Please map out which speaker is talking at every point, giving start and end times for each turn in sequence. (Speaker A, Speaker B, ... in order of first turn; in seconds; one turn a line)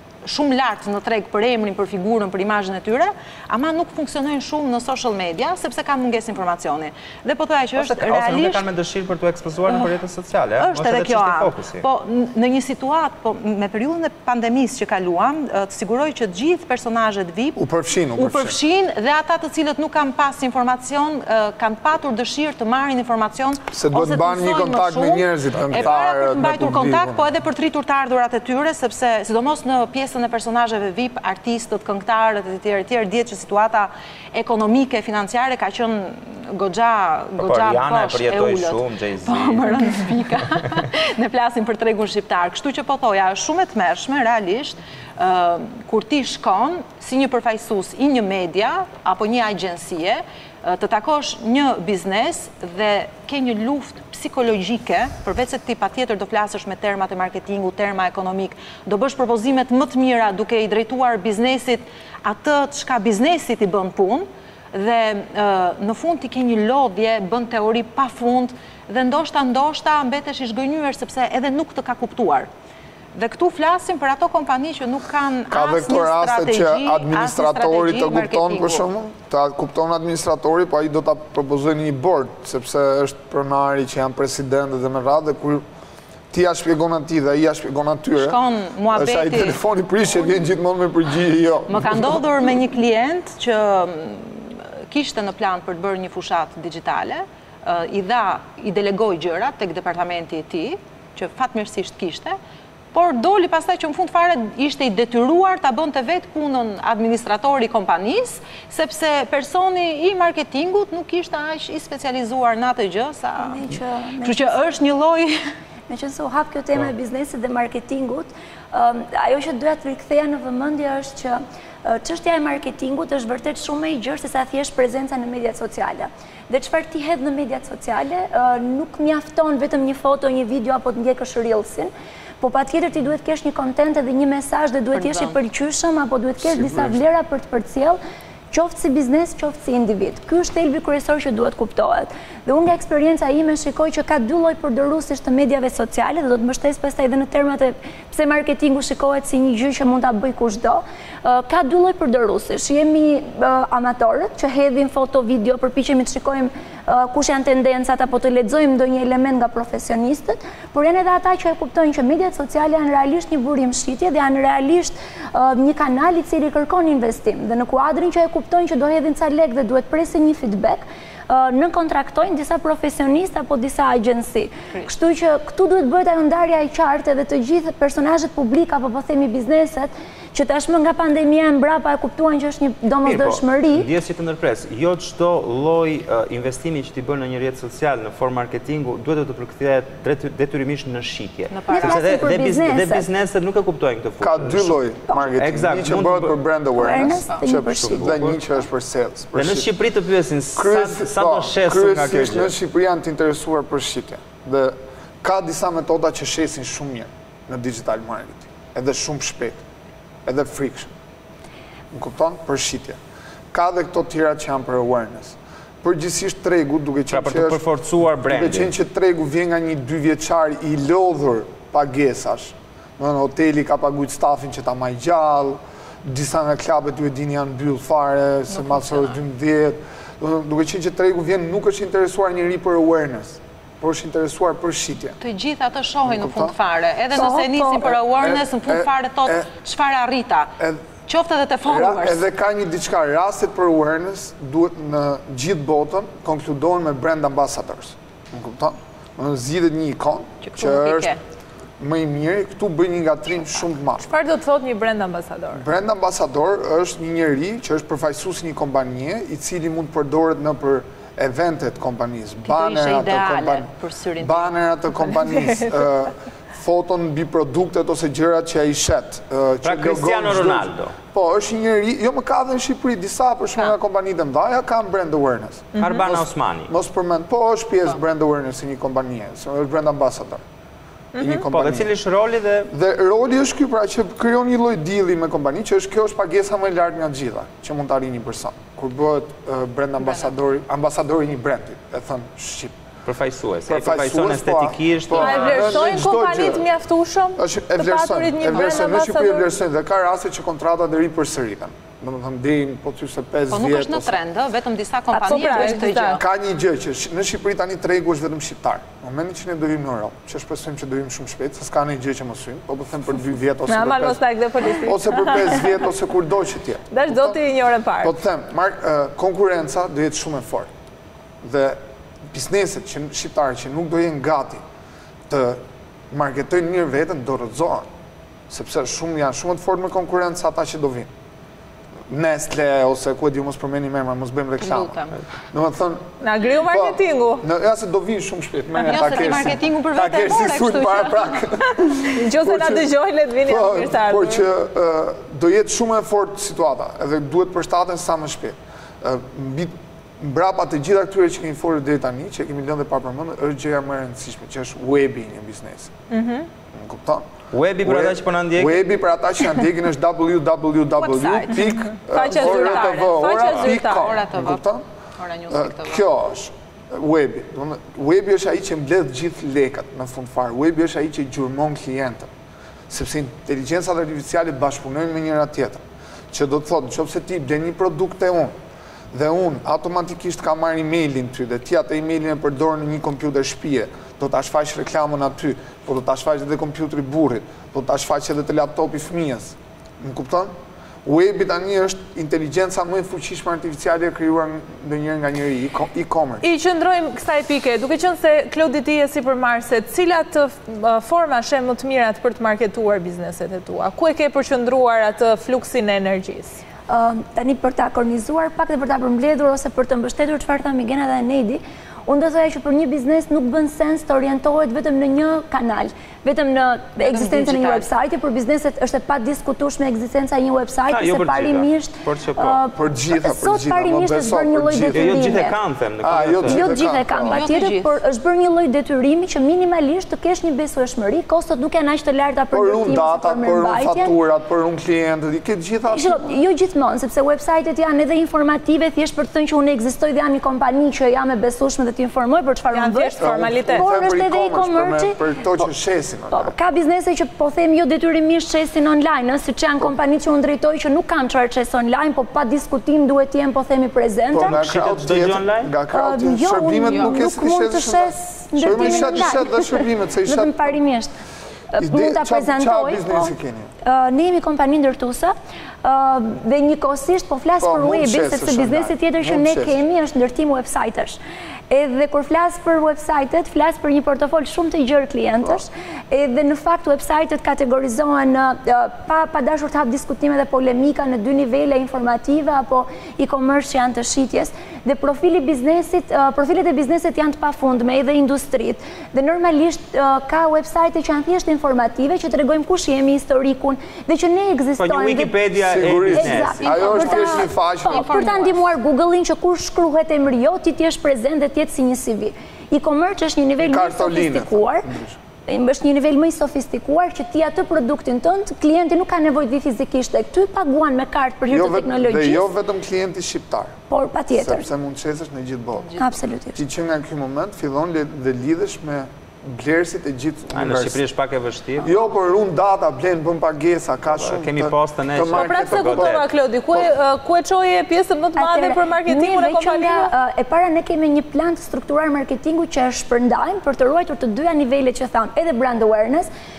Speaker A: 0.2-8.7
Speaker B: 7.8-11.8
Speaker A: 10.6-17.6
Speaker C: 17.6-18.6
Speaker A: 18.2-72.5
Speaker C: 23.7-27.2
Speaker B: 37.4-40.0
Speaker A: 73.1-78.8
Speaker C: 75.5-85.6
Speaker C: 86.3-88.4
Speaker A: 88.1-89.6
Speaker C: 88.9-92.2
Speaker A: 91.7-102.4
Speaker A: 102.9-113.6
Speaker D: 113.4-114.4
Speaker A: 114.2-115.4
Speaker D: 115.9-138.0
Speaker A: 134.9-135.3
Speaker C: 136.4-136.9
Speaker D: 138.5-183.9
Speaker B: 183.0-196.3
Speaker A: 191.5-192.2
Speaker D: 191.7-193.1
Speaker C: 194.2-199.7
Speaker D: 196.8-198.2
Speaker B: 197.7-198.4
Speaker B: 199.3-202.5
Speaker C: 200.5-209.6
Speaker C: 210.2-210.9
Speaker C: 211.9-213.0
Speaker C: 213.5-235.2
Speaker B: 217.1-218.7
Speaker A: 228.5-229.1
Speaker A: 235.2-240.5
Speaker C: 236.1-236.5
Speaker D: 237.1-237.9
Speaker C: 238.0-239.5
Speaker A: 241.1-242.2
Speaker C: 241.7-251.1
Speaker A: 250.4-251.2
Speaker C: 251.8-254.1
Speaker E: 254.1-255.6
Speaker C: 255.5-263.7
Speaker A: 262.4-264.5
Speaker C: 264.2-280.4
Speaker E: 265.3-265.6
Speaker B: 269.6-270.9
Speaker E: 275.8-276.0
Speaker B: 275.8-276.7
Speaker C: 281.1-281.9
Speaker B: 281.4-282.7
Speaker C: 282.7-292.8
Speaker B: 293.1-295.9
Speaker C: 293.7-296.7
Speaker E: 295.2-299.5
Speaker C: 297.4-304.2
Speaker A: 303.5-306.2
Speaker E: 305.1-306.2
Speaker C: 306.1-314.2
Speaker E: 313.7-315.7
Speaker C: 314.8-317.4
Speaker E: 316.9-318.1
Speaker C: 318.0-320.7
Speaker C: 321.4-321.8
Speaker C: 322.3-324.6
Speaker C: 325.3-327.9
Speaker C: 328.5-331.1
Speaker C: 332.1-335.0
Speaker A: 334.6-335.2
Speaker C: 335.5-336.1
Speaker E: 336.2-337.4
Speaker C: 336.6-342.9
Speaker A: 338.9-341.4
Speaker E: 342.1-344.4
Speaker C: 343.4-355.9
Speaker E: 356.1-356.5
Speaker C: 356.7-357.3
Speaker B: 357.5-358.8
Speaker C: 357.8-364.8
Speaker A: 361.0-364.6
Speaker E: 362.1-364.1
Speaker A: 365.2-366.0
Speaker C: 365.5-372.3
Speaker C: 372.9-378.5
Speaker C: 379.1-390.5
Speaker C: 391.0-396.4
Speaker E: 396.4-406.6
Speaker D: 406.9-425.6
Speaker A: 417.0-417.9
Speaker B: 420.9-422.6
Speaker C: 422.7-425.4
Speaker B: 424.9-426.6
Speaker C: 426.0-427.4
Speaker D: 426.4-434.1
Speaker A: 427.3-428.0
Speaker C: 432.5-436.2
Speaker D: 435.9-445.7
Speaker E: 442.7-443.9
Speaker C: 443.2-446.5
Speaker D: 446.3-454.6
Speaker C: 454.3-460.8
Speaker B: 454.4-455.7
Speaker D: 455.9-461.1
Speaker A: 456.9-457.2
Speaker D: 461.7-471.2
Speaker C: 461.8-463.7
Speaker C: 467.6-469.8
Speaker D: 471.7-495.4
Speaker B: 494.8-496.6
Speaker C: 495.6-498.1
Speaker D: 496.1-504.9
Speaker A: 496.6-498.7
Speaker C: 503.6-505.2
Speaker D: 505.5-512.5
Speaker C: 511.5-513.8
Speaker D: 513.9-514.7
Speaker C: 514.3-516.0
Speaker A: 515.8-516.1
Speaker D: 516.0-516.6
Speaker C: 516.5-521.0
Speaker B: 520.5-521.9
Speaker C: 521.8-526.2
Speaker B: 524.1-526.3
Speaker E: 525.3-530.1
Speaker D: 528.4-536.3